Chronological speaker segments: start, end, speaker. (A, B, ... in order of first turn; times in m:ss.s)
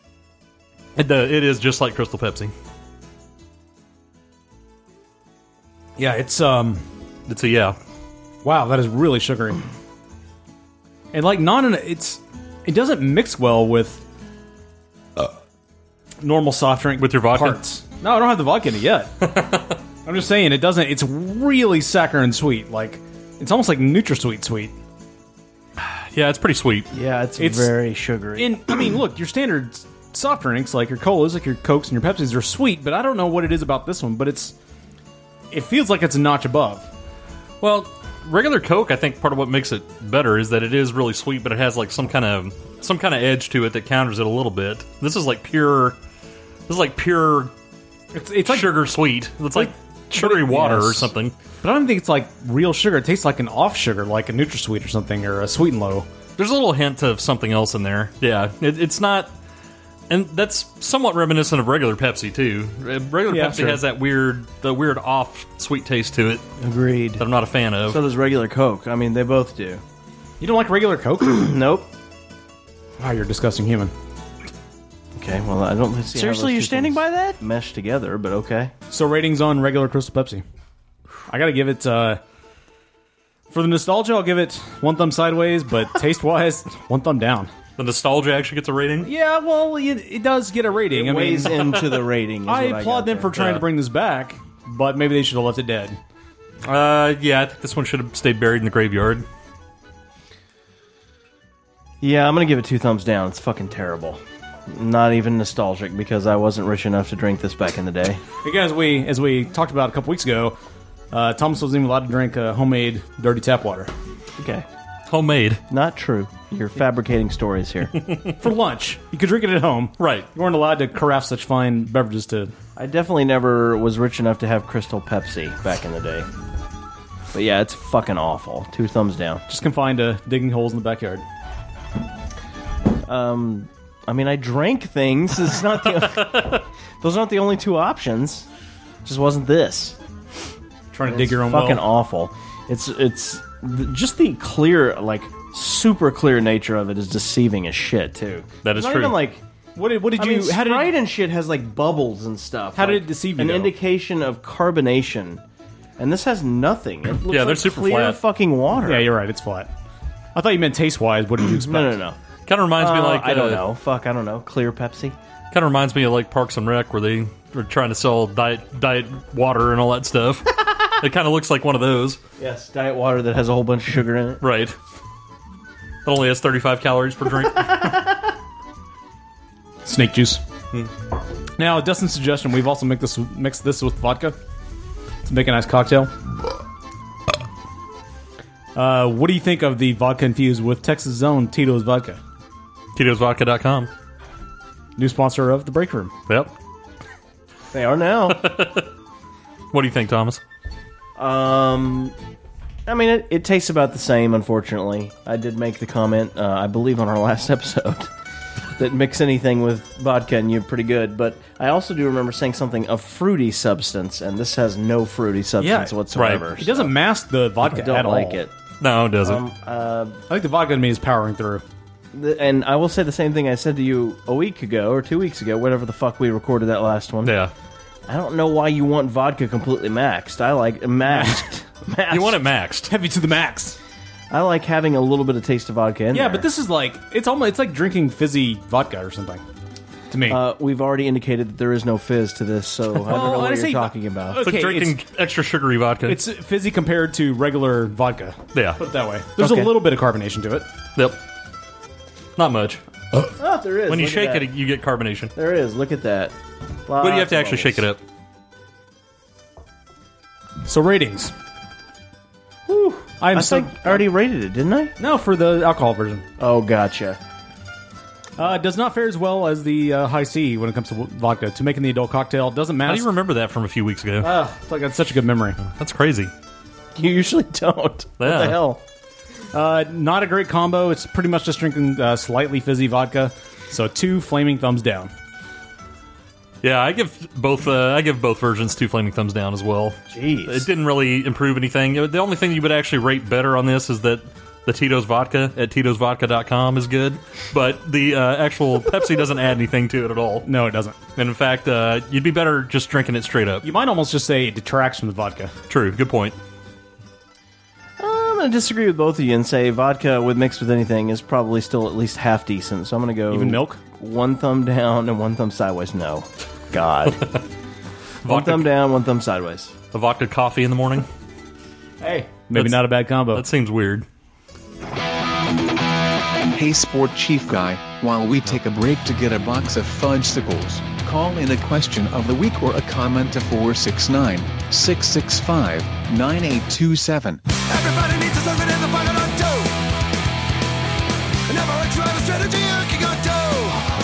0:01.0-0:02.5 A
0:06.0-0:06.8 B
0:07.3-0:07.8 A
0:08.4-0:09.6 B
0:11.1-0:14.0 B
0:16.2-0:19.1 B
0:17.0-0:17.6 A
0:19.2-0:19.8 A
0:20.0-0:24.8 B
0:25.8-0:26.9 A
0:26.9-0:28.8 C
0:27.4-0:27.8 B
0:28.4-0:34.6 B
0:35.5-0:36.9 B
0:37.6-0:46.0 A
0:46.7-0:47.5 A
0:48.1-0:48.9 B
0:48.4-0:51.3 A
0:49.5-0:56.1 B
0:56.4-0:59.3 A
1:00.1-1:06.4 A
1:03.3-1:03.8 B
1:06.6-1:07.2 C
1:07.2-1:08.0 A
1:07.9-1:09.8 C
1:10.4-1:11.5 B
1:11.2-1:11.9 C
1:13.0-1:13.9 B
1:15.2-1:18.7 C
1:16.1-1:17.0 B
1:18.9-1:20.4 B
1:21.3-1:22.2 B
1:23.5-1:27.5 B
1:27.8-1:29.1 A
1:29.0-1:31.7 B
1:30.9-1:33.6 C
1:32.5-1:36.0 B
1:36.6-1:39.3 A
1:42.0-1:48.2 C
1:48.4-1:50.6 B
1:51.1-1:53.9 B
1:54.4-1:54.7 C
1:55.1-1:55.6 A
1:55.7-1:58.0 C
1:58.4-2:02.5 B
2:00.0-2:00.3 A
2:02.8-2:06.3 C
2:07.3-2:09.4 C
2:09.5-2:11.2 B
2:13.0-2:18.5 C
2:16.1-2:16.6 A
2:19.0-2:20.0 C
2:20.9-2:21.8 B
2:21.1-2:29.4 C
2:28.6-2:29.2 A
2:29.8-2:31.0 B
2:30.2-2:35.4 C
2:32.8-2:33.8 B
2:36.0-2:39.1 C
2:37.3-2:38.2 A
2:38.8-2:39.7 B
2:40.4-2:42.0 B
2:41.6-2:42.2 C
2:42.5-2:43.7 A
2:42.8-2:45.2 C
2:45.5-2:52.2 A
2:52.4-2:54.4 C
2:54.4-2:54.8 A
2:56.0-2:58.0 A
2:59.8-3:00.4 B
3:01.6-3:04.4 B
3:05.2-3:06.1 B
3:08.8-3:12.2 B
3:13.0-3:13.9 A
3:15.0-3:16.1 B
3:16.3-3:16.5 A
3:17.7-3:18.5 C
3:18.3-3:18.8 A
3:19.7-3:20.4 A
3:21.2-3:22.2 C
3:22.9-3:28.1 C
3:28.8-3:36.9 C
3:35.6-3:38.4 B
3:36.2-3:36.4 A
3:37.6-3:38.5 C
3:38.8-3:39.4 A
3:39.2-3:40.2 C
3:40.3-3:41.6 B
3:42.1-3:47.3 C
3:47.2-3:47.5 A
3:48.1-3:52.4 C
3:51.0-3:51.5 B
3:52.1-3:52.9 A
3:52.9-3:53.8 B
3:54.3-3:56.4 C
3:56.1-3:59.4 B
4:00.1-4:00.4 B
4:00.3-4:04.4 C
4:03.0-4:05.0 B
4:04.4-4:06.2 A
4:06.0-4:10.7 B
4:08.5-4:08.8 A
4:09.4-4:09.8 C
4:12.4-4:12.8 A
4:13.4-4:14.5 C
4:13.9-4:15.3 A
4:15.4-4:16.4 C
4:16.9-4:17.8 C
4:17.0-4:18.0 A
4:20.6-4:21.3 B
4:22.7-4:24.9 C
4:23.2-4:24.1 B
4:25.0-4:26.3 B
4:26.4-4:27.2 C
4:28.4-4:33.1 B
4:32.8-4:34.4 A
4:34.2-4:35.6 B
4:35.6-4:36.3 A
4:37.0-4:38.8 C
4:38.2-4:38.6 A
4:39.5-4:45.1 B
4:46.6-5:00.5 A
4:50.1-4:50.7 C
5:00.4-5:01.0 B
5:01.2-5:03.6 A
5:03.6-5:05.5 B
5:05.7-5:06.4 A
5:08.0-5:17.3 C
5:13.3-5:13.8 B
5:18.2-5:18.7 A
5:18.2-5:19.8 C
5:19.9-5:21.1 A
5:22.0-5:23.4 B
5:22.5-5:24.1 A
5:26.5-5:37.4 D
5:37.7-5:39.7 E
5:41.5-5:43.7 E